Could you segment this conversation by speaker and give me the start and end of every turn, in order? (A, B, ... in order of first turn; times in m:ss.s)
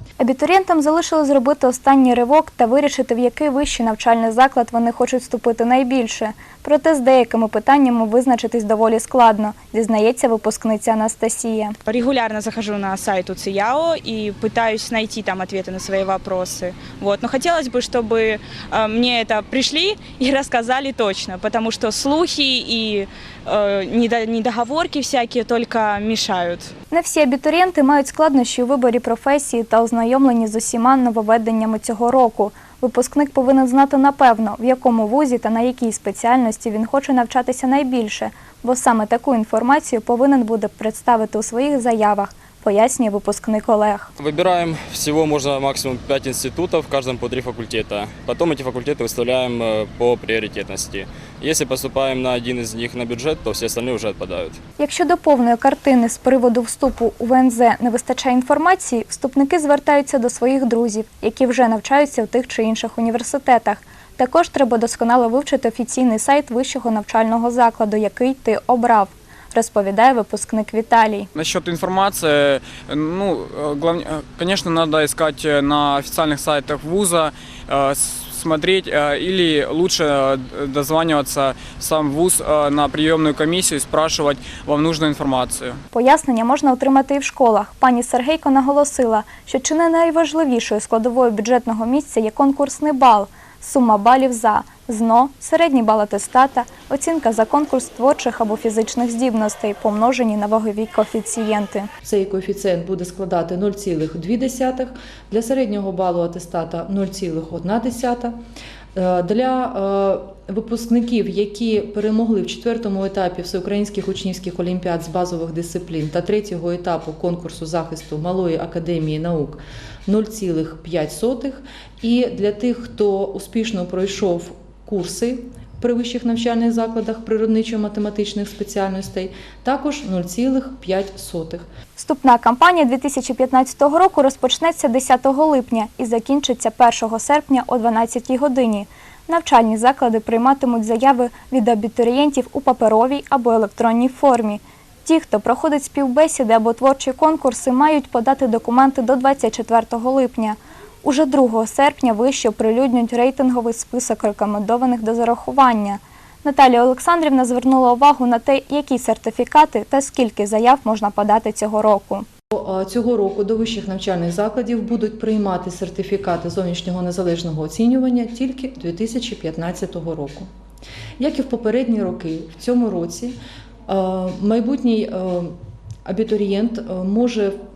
0:00.2-0:11.8 A
0:11.9-0:26.7 B
0:26.9-0:44.1 A
0:44.2-0:54.6 C
0:54.8-1:11.3 A
1:11.4-1:25.8 D
1:25.9-1:41.9 A
1:42.0-1:48.4 E
1:49.0-2:11.7 E
2:12.0-2:42.3 A
2:42.5-2:50.5 E
2:51.2-2:53.4 E
2:53.9-2:55.5 E
2:56.1-2:57.6 E